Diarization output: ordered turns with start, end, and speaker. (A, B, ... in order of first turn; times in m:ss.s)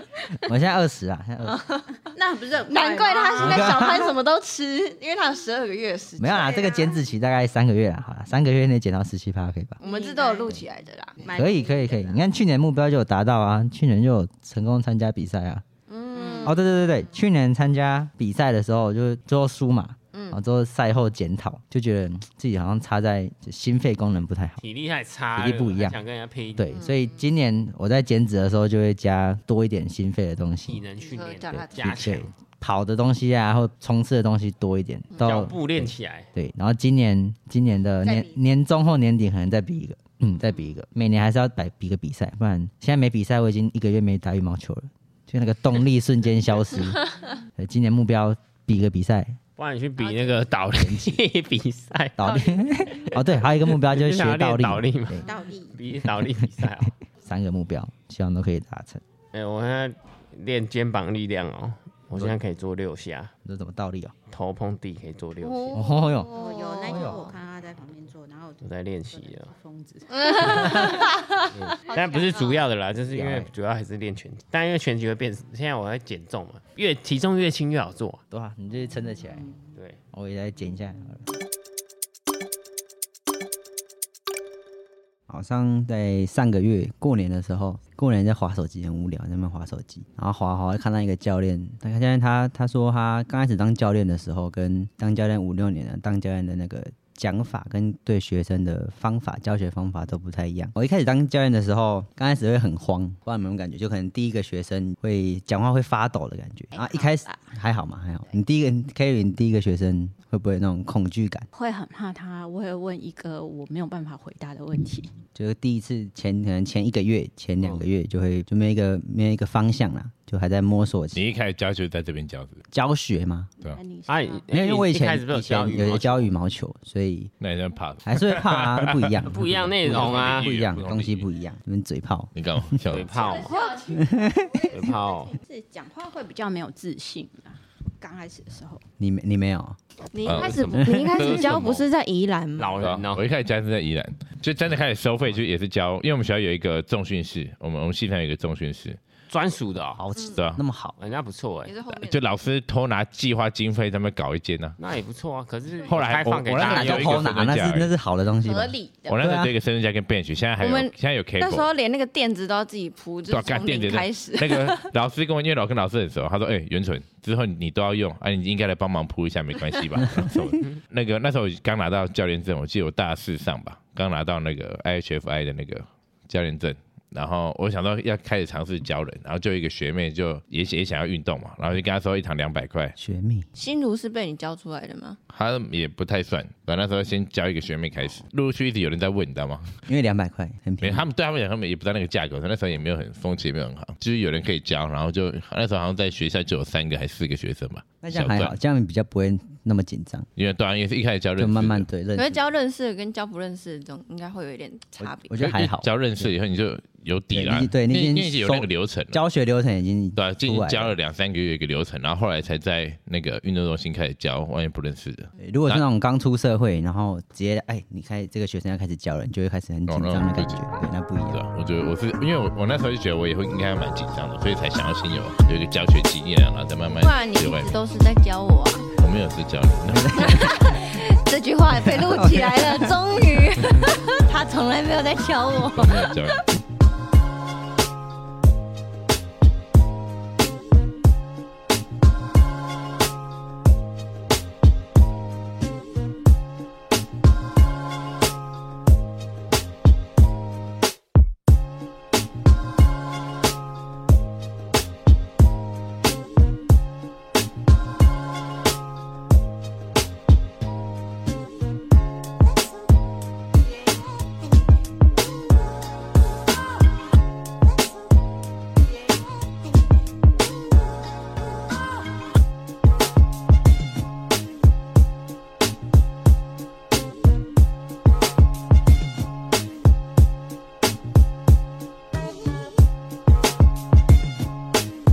0:00.4-0:01.6 A
0:01.4-0:02.0 B
0:02.1-0:04.2 C
0:02.6-0:06.9 B
0:03.3-0:04.0 A
0:06.2-0:09.8 A
0:09.8-0:10.5 C
0:09.8-0:11.7 B
0:11.2-0:12.1 C
0:11.3-0:15.6 A
0:15.9-0:16.6 B
0:16.1-0:16.6 C
0:16.4-0:24.6 A
0:20.1-0:20.4 B
0:24.6-0:26.8 D
0:25.3-0:26.0 A
0:26.6-0:30.8 A
0:26.7-0:27.2 B
0:30.6-0:32.3 D
0:31.0-0:32.2 B
0:31.8-0:47.0 A
0:35.1-0:35.5 B
0:35.2-0:36.3 D
0:38.0-0:38.4 B
0:47.6-0:49.4 A
0:49.6-0:52.3 D
0:50.0-0:50.5 B
0:50.7-0:51.2 A
0:52.2-0:55.3 A
0:52.2-0:52.8 C
0:52.8-0:56.9 D
0:55.2-0:55.8 C
0:57.2-0:59.0 A
0:59.3-1:03.3 D
1:03.4-1:04.1 A
1:04.3-1:05.8 D
1:05.4-1:07.4 B
1:05.7-1:06.3 A
1:06.0-1:11.2 C
1:06.8-1:07.3 A
1:08.6-1:09.5 D
1:10.1-1:11.0 B
1:11.5-1:18.2 D
1:11.8-1:12.6 B
1:13.1-1:13.5 A
1:18.3-1:19.5 A
1:20.1-1:21.2 A
1:25.3-1:51.5 A
1:46.7-1:47.5 C
1:51.5-1:55.1 C
1:55.3-2:01.2 A
2:01.1-2:02.6 E
2:02.7-2:03.5 A
2:03.6-2:04.5 C
2:04.1-2:06.3 D
2:04.5-2:07.3 A
2:07.4-2:11.2 E
2:08.0-2:12.8 A
2:09.2-2:10.5 D
2:12.3-2:13.3 E
2:12.9-2:13.7 D
2:13.2-2:18.8 C
2:13.9-2:14.7 A
2:14.7-2:15.4 D
2:19.0-2:19.8 A
2:20.1-2:22.8 B
2:20.2-2:20.6 E
2:20.3-2:21.9 D
2:20.8-2:21.1 A
2:21.2-2:21.7 E
2:22.6-2:23.2 D
2:22.8-2:29.0 E
2:29.3-2:30.0 D
2:30.0-2:31.0 A
2:30.3-2:30.6 E
2:31.0-2:31.7 D
2:31.6-2:32.2 B
2:31.9-2:34.8 E
2:34.8-2:37.5 D
2:35.8-2:37.9 E
2:36.5-2:39.5 A
2:38.4-2:39.2 C
2:39.1-2:41.7 E
2:40.6-2:44.8 B
2:43.3-3:02.9 E
3:03.0-3:03.5 A
3:03.5-3:05.2 B
3:05.3-3:09.8 E
3:09.9-3:11.1 A
3:10.8-3:18.5 E
3:18.0-3:20.3 A
3:20.4-3:21.8 E
3:21.4-3:22.4 A
3:22.1-3:25.3 B
3:25.0-3:26.3 A
3:25.4-3:29.2 E
3:27.3-3:30.9 A
3:30.2-3:35.8 E
3:35.4-3:41.4 A
3:39.9-3:47.8 E
3:46.9-3:48.9 B
3:49.0-3:50.6 E
3:49.9-3:50.9 A
3:50.2-3:56.1 B
3:51.7-3:53.4 A
3:55.6-3:56.5 E